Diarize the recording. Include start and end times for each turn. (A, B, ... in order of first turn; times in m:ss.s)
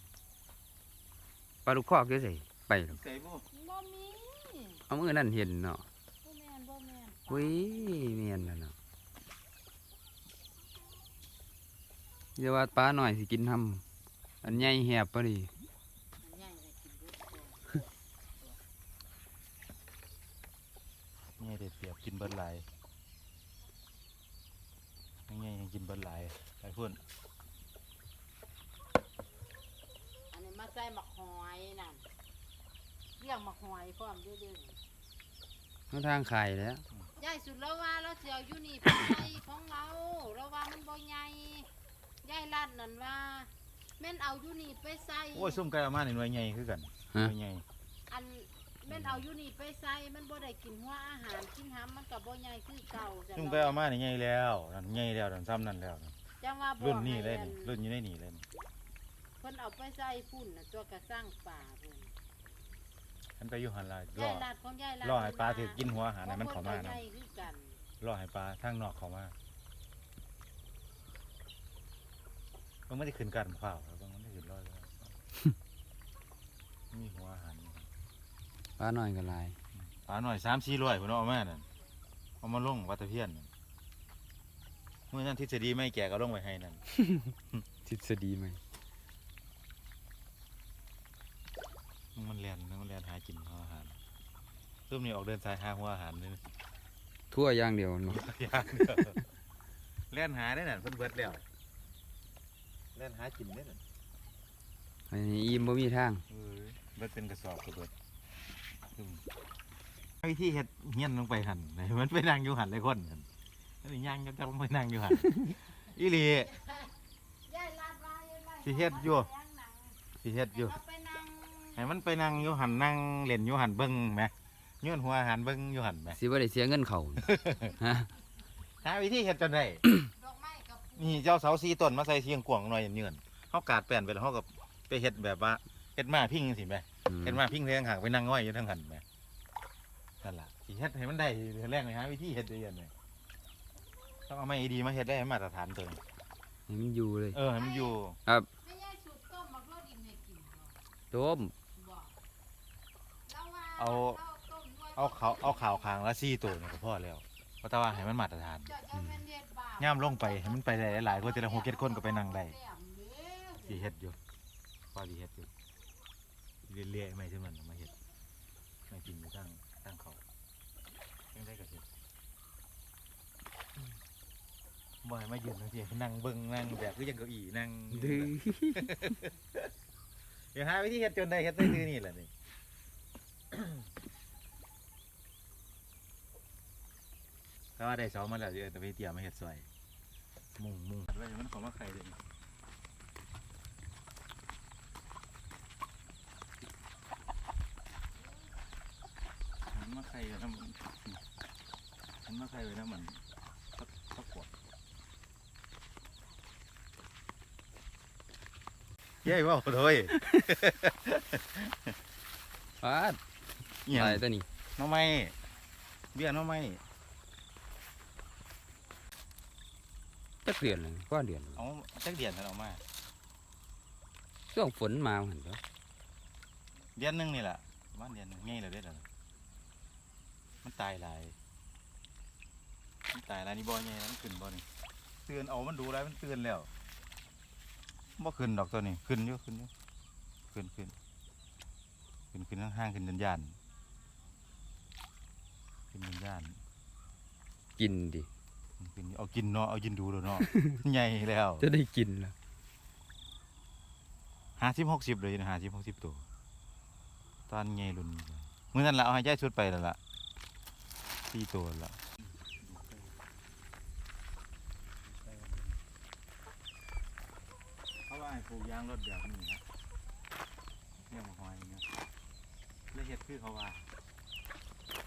0:01.7-0:03.0 A
0:02.9-0:03.4 B
0:03.5-0:04.8 C
0:04.9-0:05.8 A
0:06.2-0:07.9 C
0:07.3-0:08.7 A
0:12.4-0:13.8 A
0:14.4-0:15.5 A
0:16.2-0:17.8 C
0:21.4-0:22.7 B
0:25.3-0:27.0 B
0:30.3-0:32.0 C
0:33.2-0:34.8 C
0:35.9-0:36.8 A
0:37.2-0:41.7 C
0:42.2-0:45.6 C
0:45.3-0:47.6 B
0:48.1-0:53.8 C
0:48.9-0:49.2 B
0:53.4-0:56.2 B
0:56.4-0:57.7 C
0:56.8-0:58.4 B
0:59.4-1:02.1 C
1:03.4-1:04.5 B
1:04.2-1:07.8 C
1:05.0-1:07.0 B
1:08.0-1:09.4 B
1:12.9-1:15.2 B
1:16.9-1:17.9 B
1:18.8-1:19.6 A
1:19.9-1:21.7 B
1:22.4-1:23.5 B
1:25.1-1:26.8 B
1:27.9-1:28.6 A
1:32.2-1:34.0 B
1:34.9-1:36.4 B
1:37.3-1:38.2 A
1:38.1-1:39.2 B
1:40.1-1:41.4 B
1:43.0-1:43.8 B
1:45.1-1:46.2 A
1:46.3-1:47.9 B
1:49.0-1:49.2 B
1:50.2-1:53.3 B
1:53.8-1:56.5 B
1:56.6-1:56.9 C
1:57.5-2:00.0 C
1:58.6-1:59.3 B
2:00.2-2:00.8 B
2:00.7-2:01.8 C
2:01.8-2:06.2 B
2:06.1-2:08.1 A
2:07.2-2:07.7 B
2:08.8-2:09.8 B
2:10.2-2:11.1 C
2:11.0-2:19.0 B
2:17.1-2:17.4 A
2:20.2-2:22.9 B
2:24.3-2:26.0 B
2:26.7-2:27.4 A
2:27.3-2:28.2 B
2:28.6-2:30.8 C
2:31.1-2:31.5 A
2:31.8-2:32.1 C
2:33.3-2:35.6 C
2:33.8-2:34.2 B
2:34.9-2:38.8 B
2:38.7-2:43.7 C
2:39.8-2:42.6 B
2:43.6-2:44.2 B
2:44.9-2:45.5 B
2:46.7-2:47.9 B
2:48.9-2:50.2 B
2:51.3-2:51.9 B
2:55.0-2:59.6 B
2:57.9-2:59.2 A
3:00.5-3:02.3 B
3:07.8-3:09.7 B
3:10.6-3:12.2 B
3:19.7-3:21.2 B
3:22.3-3:23.2 B
3:23.8-3:24.5 B
3:29.2-3:31.9 B
3:32.8-3:33.2 A
3:33.9-3:34.2 B
3:33.9-3:34.5 A
3:34.8-3:35.4 B
3:36.1-3:36.8 B
3:40.4-3:41.6 A
3:41.6-3:42.8 B
3:44.5-3:45.6 A
3:47.0-3:49.1 B
3:50.6-3:51.4 B
3:53.1-3:54.7 B
3:55.3-3:56.7 B
3:58.2-3:59.7 B
4:00.5-4:01.0 B
4:02.3-4:03.6 B
4:05.9-4:06.6 B
4:07.8-4:08.3 A
4:08.8-4:11.7 B
4:10.4-4:10.8 A
4:11.6-4:12.3 A
4:14.6-4:16.2 B
4:17.5-4:20.0 B
4:21.3-4:23.1 B
4:25.1-4:25.8 B
4:28.1-4:29.6 B
4:31.1-4:31.8 B
4:32.9-4:33.9 B